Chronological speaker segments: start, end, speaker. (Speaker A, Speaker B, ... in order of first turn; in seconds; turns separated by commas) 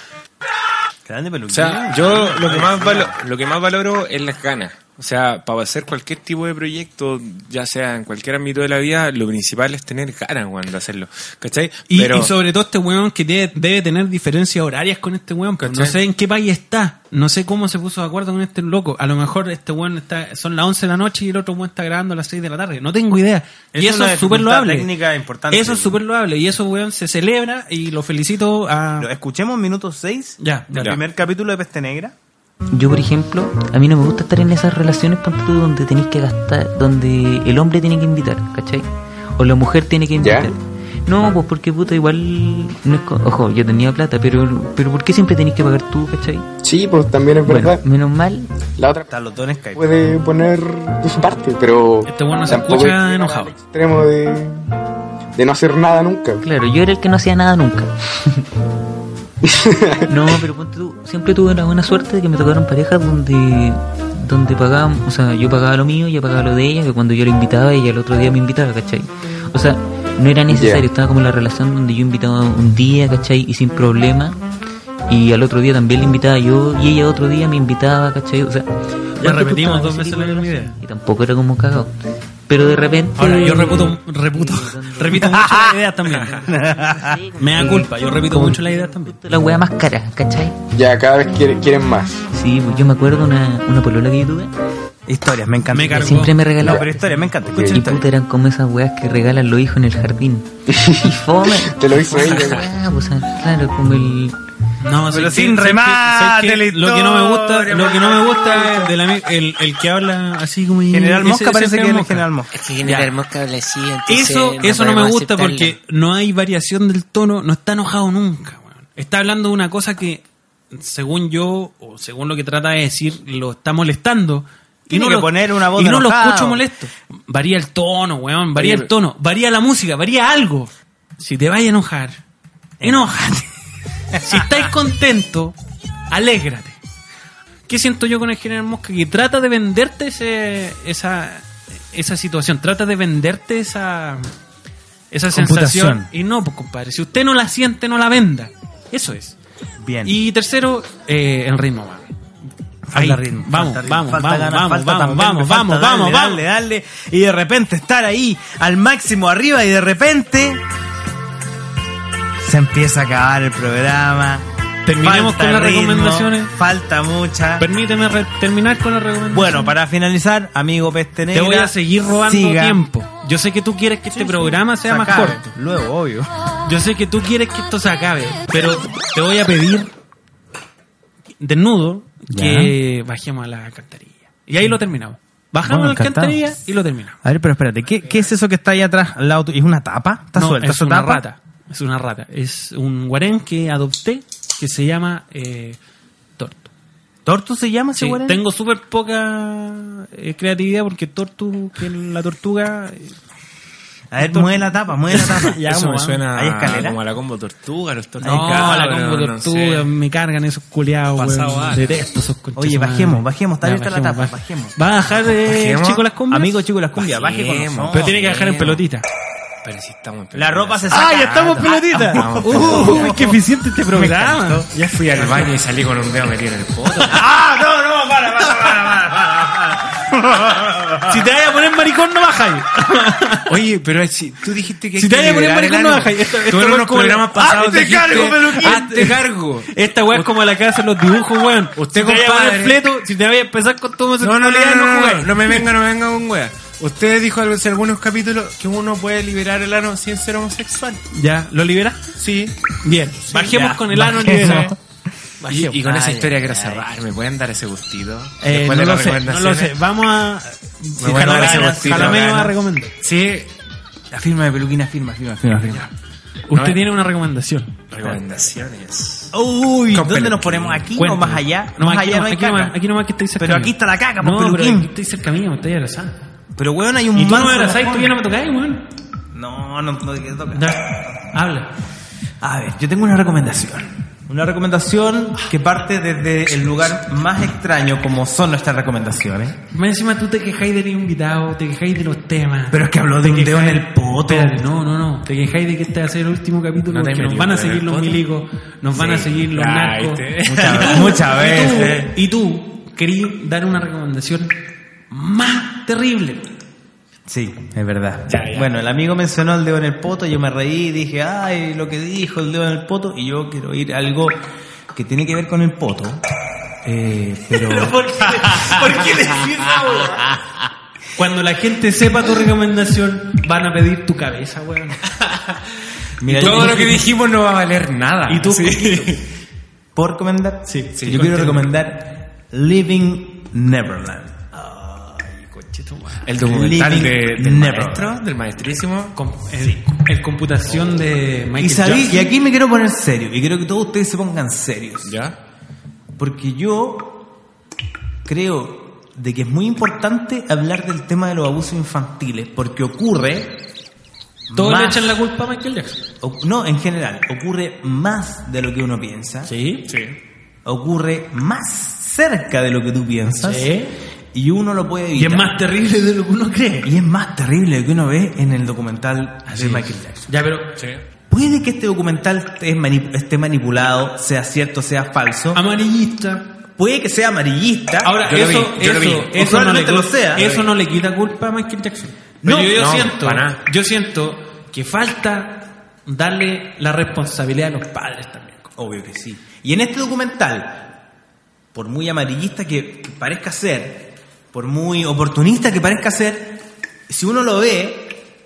Speaker A: 1.1-3.1, Speaker B: 1.5-12.3, Speaker C: 11.9-24.9, Speaker B: 15.6-15.9, Speaker A: 23.7-26.0, Speaker C: 25.5-29.1, Speaker A: 29.0-32.1, Speaker C: 30.4-30.9, Speaker D: 32.7-38.9, Speaker D: 39.4-46.5, Speaker E: 40.2-40.5, Speaker E: 46.6-47.8, Speaker D: 47.5-48.6, Speaker E: 48.7-49.1, Speaker A: 49.1-49.9, Speaker E: 49.8-54.7, Speaker C: 52.1-53.5, Speaker E: 55.4-56.4, Speaker D: 56.4-58.4, Speaker E: 59.4-60.4, Speaker D: 60.1-74.4, Speaker E: 70.5-70.9, Speaker D: 75.1-78.7, Speaker D: 79.2-81.9, Speaker C: 79.2-80.8, Speaker D: 82.5-85.4, Speaker C: 83.2-86.4, Speaker A: 85.1-85.8, Speaker D: 86.1-90.6, Speaker A: 86.4-87.2, Speaker C: 87.4-89.2, Speaker E: 90.7-92.2, Speaker D: 92.3-94.5, Speaker A: 95.1-98.1, Speaker C: 95.7-96.4, Speaker D: 95.9-100.5, Speaker E: 97.5-97.8, Speaker E: 100.7-102.7, Speaker D: 101.0-104.4, Speaker B: 102.2-102.6, Speaker C: 104.8-112.3, Speaker A: 105.1-109.0, Speaker A: 110.9-113.1, Speaker B: 112.6-115.0, Speaker D: 113.1-115.7, Speaker C: 114.1-132.2, Speaker A: 124.9-126.6, Speaker B: 128.6-128.9, Speaker A: 132.8-133.2, Speaker C: 132.8-133.5, Speaker C: 134.2-135.6, Speaker A: 134.3-134.6, Speaker C: 136.1-136.8, Speaker C: 137.7-144.3, Speaker C: 145.1-149.4, Speaker A: 145.3-146.1, Speaker A: 149.8-150.2, Speaker C: 150.1-152.1, Speaker A: 152.9-160.6, Speaker C: 152.9-156.4, Speaker A: 162.4-164.4, Speaker C: 164.9-166.5, Speaker A: 165.0-167.7, Speaker C: 167.6-169.7, Speaker A: 169.3-172.8, Speaker C: 171.3-175.5, Speaker A: 174.1-176.3, Speaker C: 176.7-179.9, Speaker C: 181.4-187.2, Speaker A: 182.3-182.8, Speaker A: 185.6-186.5, Speaker A: 187.2-191.2, Speaker C: 190.3-195.8, Speaker C: 196.4-196.7, Speaker A: 197.2-198.4, Speaker C: 198.0-203.2, Speaker A: 204.1-207.0, Speaker C: 204.2-206.2, Speaker B: 205.7-209.9, Speaker A: 208.2-208.7, Speaker C: 208.2-216.6, Speaker B: 211.2-212.0, Speaker A: 212.6-214.8, Speaker B: 215.2-216.1, Speaker A: 216.3-218.2, Speaker B: 217.0-218.8, Speaker C: 217.9-219.1, Speaker B: 219.6-221.0, Speaker A: 220.3-224.7, Speaker C: 220.9-225.5, Speaker B: 222.1-223.1, Speaker B: 224.8-227.2, Speaker A: 227.1-231.2, Speaker C: 231.1-233.5, Speaker B: 233.5-240.3, Speaker C: 235.0-245.7, Speaker A: 237.4-238.9, Speaker B: 241.8-242.8, Speaker B: 244.2-251.0, Speaker C: 251.1-252.0, Speaker B: 252.2-252.6, Speaker C: 252.8-254.7, Speaker B: 253.3-253.7, Speaker A: 253.4-254.8, Speaker B: 254.2-254.7, Speaker C: 255.4-255.8, Speaker B: 255.5-259.8, Speaker A: 255.8-256.9, Speaker C: 258.4-262.9, Speaker B: 261.0-263.5, Speaker A: 261.1-262.5, Speaker A: 264.1-265.9, Speaker C: 266.5-267.8, Speaker B: 266.5-266.8, Speaker B: 267.9-269.3, Speaker A: 269.3-272.8, Speaker B: 270.1-270.8, Speaker C: 270.9-276.2, Speaker A: 273.4-274.9, Speaker A: 276.6-278.2, Speaker C: 277.1-278.8, Speaker A: 279.3-281.2, Speaker C: 280.5-281.7, Speaker A: 282.4-289.6, Speaker C: 289.7-304.6, Speaker A: 292.7-294.7, Speaker B: 296.9-298.2, Speaker B: 298.9-302.1, Speaker A: 300.4-302.1, Speaker C: 305.1-306.5, Speaker A: 307.3-316.2, Speaker B: 308.3-308.7, Speaker A: 316.8-319.0, Speaker C: 317.5-320.2, Speaker C: 321.2-325.1, Speaker A: 326.2-327.0, Speaker C: 326.4-327.0, Speaker B: 326.4-329.3, Speaker C: 328.3-329.2, Speaker A: 329.9-334.4, Speaker C: 330.7-331.6, Speaker B: 331.0-331.6, Speaker C: 334.5-336.3, Speaker B: 336.3-339.2, Speaker A: 336.4-338.2, Speaker C: 339.2-342.3, Speaker A: 341.6-345.1, Speaker B: 345.1-345.4, Speaker A: 346.2-347.3, Speaker A: 348.2-353.6, Speaker A: 354.5-355.1, Speaker C: 354.5-356.0, Speaker A: 356.2-359.5, Speaker C: 359.5-359.9, Speaker B: 359.9-360.2, Speaker A: 360.6-363.7, Speaker C: 363.4-364.0, Speaker A: 364.3-365.6, Speaker C: 365.1-366.9, Speaker A: 366.8-370.3, Speaker C: 369.5-370.7, Speaker A: 371.3-375.6, Speaker C: 375.5-376.5, Speaker A: 376.8-378.2, Speaker C: 378.0-388.7, Speaker B: 378.2-379.3, Speaker A: 379.3-380.5, Speaker B: 380.4-380.7, Speaker A: 382.4-382.8, Speaker B: 382.8-383.6, Speaker A: 388.8-390.9, Speaker A: 391.7-398.2